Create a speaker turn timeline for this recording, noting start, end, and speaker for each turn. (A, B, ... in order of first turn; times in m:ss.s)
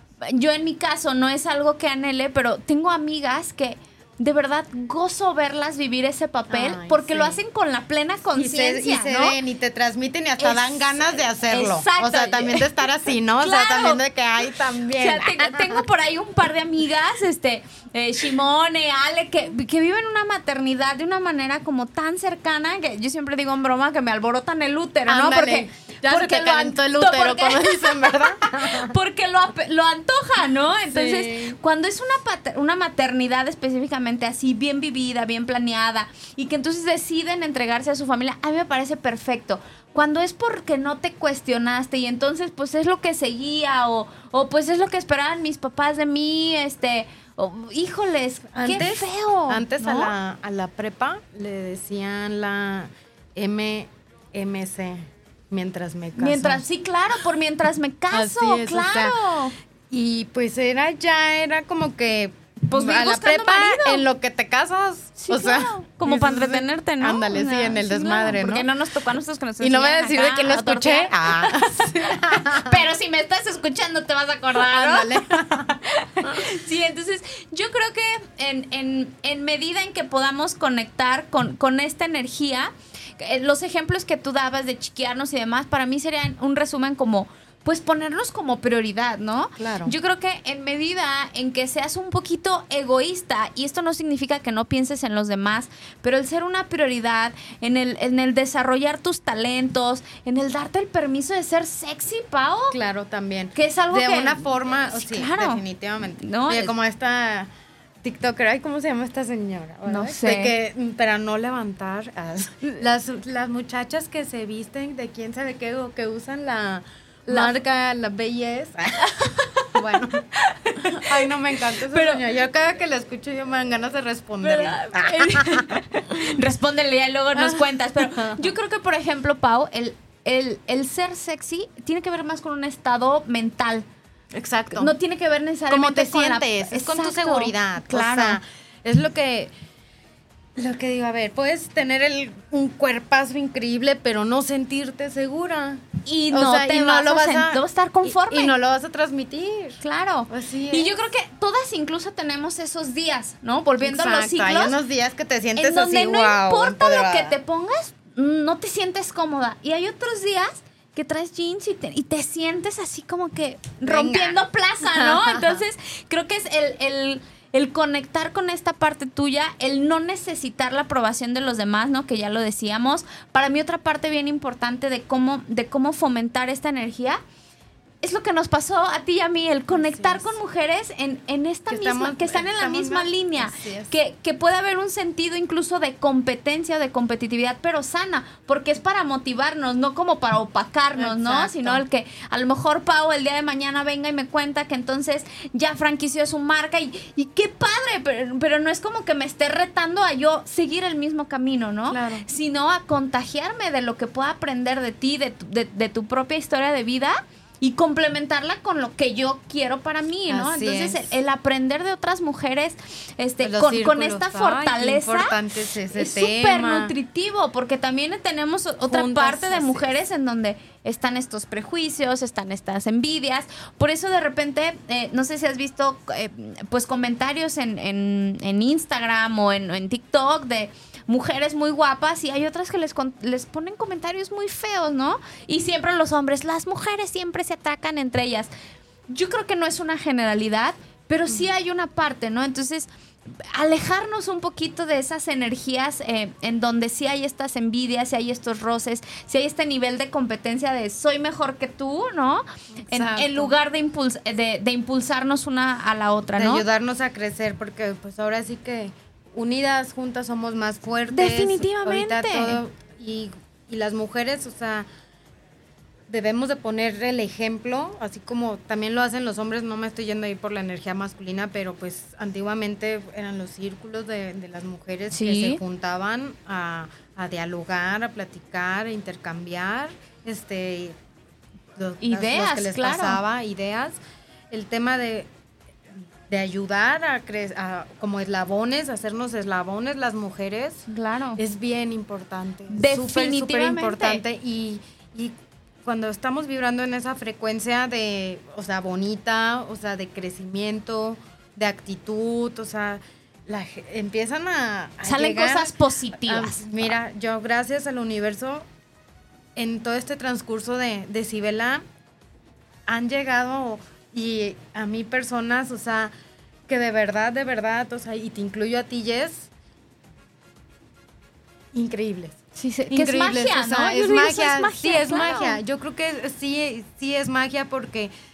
0:00.2-0:09.4 A
0:06.5-0:07.4 B
0:08.4-0:15.8 B
0:10.4-0:12.7 A
0:13.4-0:14.0 A
0:15.0-0:50.1 A
0:25.0-0:28.9 B
0:30.9-0:31.6 B
0:48.5-0:56.6 B
0:56.2-0:59.5 A
0:58.1-0:59.2 B
0:59.9-1:08.7 B
1:02.7-1:04.0 A
1:05.2-1:15.3 A
1:09.6-1:12.8 B
1:14.5-1:16.5 B
1:15.9-1:42.8 A
1:29.6-1:29.9 B
1:42.7-1:47.5 B
1:43.6-1:45.6 A
1:46.2-1:46.7 A
1:48.0-1:59.1 B
1:49.8-1:50.5 A
1:57.3-1:57.5 A
1:59.0-1:59.7 A
1:59.7-2:00.3 B
2:00.3-2:01.2 A
2:00.8-2:05.8 B
2:01.8-2:02.2 A
2:04.4-2:13.9 A
2:07.3-2:08.4 B
2:14.3-2:14.9 B
2:14.7-2:18.4 A
2:15.7-2:19.5 B
2:20.6-2:30.9 B
2:26.0-2:28.5 A
2:29.8-2:34.7 A
2:33.8-2:37.4 B
2:35.6-2:57.2 A
2:43.8-2:45.6 B
2:58.0-3:35.3 A
2:59.7-3:00.4 B
3:01.7-3:03.9 B
3:10.9-3:11.8 B
3:21.9-3:22.2 B
3:30.3-3:31.1 B
3:33.4-3:36.9 B
3:35.9-3:58.5 A
3:38.8-3:40.0 B
3:59.1-4:16.6 A
4:12.9-4:13.5 B
4:16.4-4:24.8 B
4:21.1-4:22.6 A
4:26.1-4:41.0 B
4:35.1-4:35.6 A
4:41.8-4:44.0 B
4:42.0-4:43.2 A
4:44.5-4:45.3 B
4:46.3-4:50.8 B
4:50.9-4:51.4 A
4:51.4-5:08.6 B
4:52.7-4:54.2 A
5:05.0-5:06.9 A
5:09.6-5:11.8 B
5:12.9-5:16.1 B
5:16.7-5:19.5 B
5:21.7-5:22.4 B
5:22.6-5:25.6 A
5:22.9-5:28.1 B